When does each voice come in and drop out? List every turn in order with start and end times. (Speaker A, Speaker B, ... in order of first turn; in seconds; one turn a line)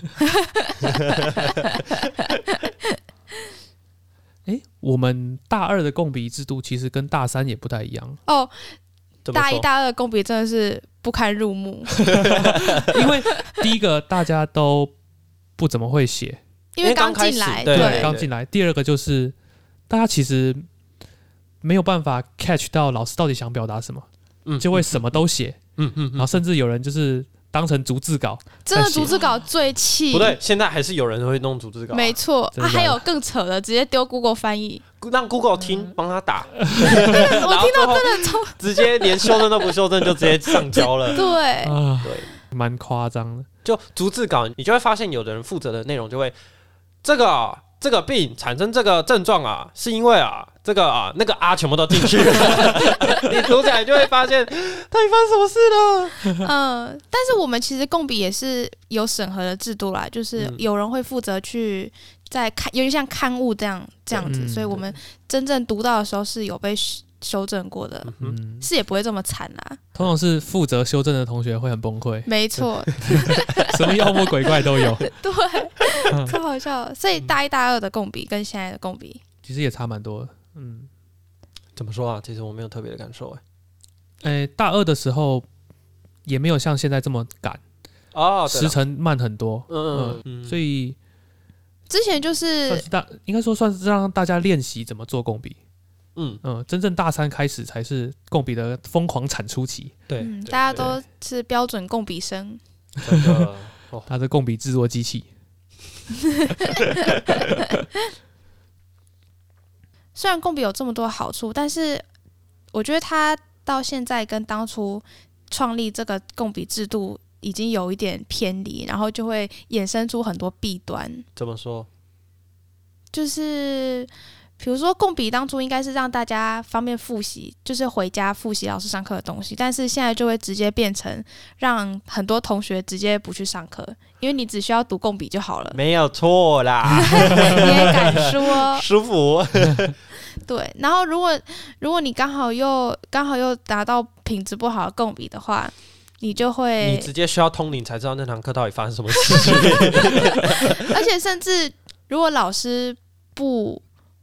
Speaker A: 0.2-3.0
Speaker B: 0.8-1.6
Speaker C: 4.5-8.2
Speaker A: 8.3-8.8
Speaker B: 9.2-9.7
Speaker A: 9.3-11.9
Speaker B: 12.1-13.0
Speaker C: 12.2-14.9
Speaker C: 15.6-16.4
Speaker A: 16.8-18.1
Speaker B: 16.8-18.3
Speaker C: 17.7-19.3
Speaker C: 19.9-20.6
Speaker C: 21.6-24.1
Speaker B: 24.4-25.2
Speaker C: 24.6-25.6
Speaker B: 25.8-26.4
Speaker C: 26.1-29.2
Speaker A: 28.6-30.4
Speaker B: 30.1-32.2
Speaker A: 31.9-34.8
Speaker C: 32.5-33.0
Speaker B: 35.0-41.2
Speaker C: 36.6-37.2
Speaker A: 37.0-39.4
Speaker A: 41.1-41.8
Speaker C: 41.6-43.5
Speaker B: 42.0-42.3
Speaker B: 43.6-46.3
Speaker B: 47.0-56.2
Speaker A: 56.3-69.8
Speaker B: 60.4-60.6
Speaker B: 64.1-64.9
Speaker C: 64.2-64.8
Speaker B: 68.0-68.4
Speaker C: 68.2-68.7
Speaker C: 70.0-75.1
Speaker A: 72.2-79.2
Speaker C: 79.4-80.9
Speaker B: 81.8-83.4
Speaker C: 84.2-85.5
Speaker C: 86.2-87.6
Speaker B: 88.1-88.8
Speaker C: 88.5-91.0
Speaker B: 89.7-90.6
Speaker A: 91.9-92.8
Speaker C: 92.7-95.5
Speaker B: 96.2-96.4
Speaker C: 96.4-100.0
Speaker B: 100.1-101.0
Speaker A: 100.2-102.6
Speaker B: 103.0-104.1
Speaker C: 103.1-103.5
Speaker C: 104.1-105.3
Speaker A: 106.5-107.6
Speaker A: 110.1-112.0
Speaker A: 112.7-121.2
Speaker B: 121.3-121.9
Speaker A: 123.1-135.8
Speaker B: 135.7-139.9
Speaker A: 136.9-138.8
Speaker A: 140.4-147.1
Speaker B: 146.8-150.9
Speaker A: 149.3-153.8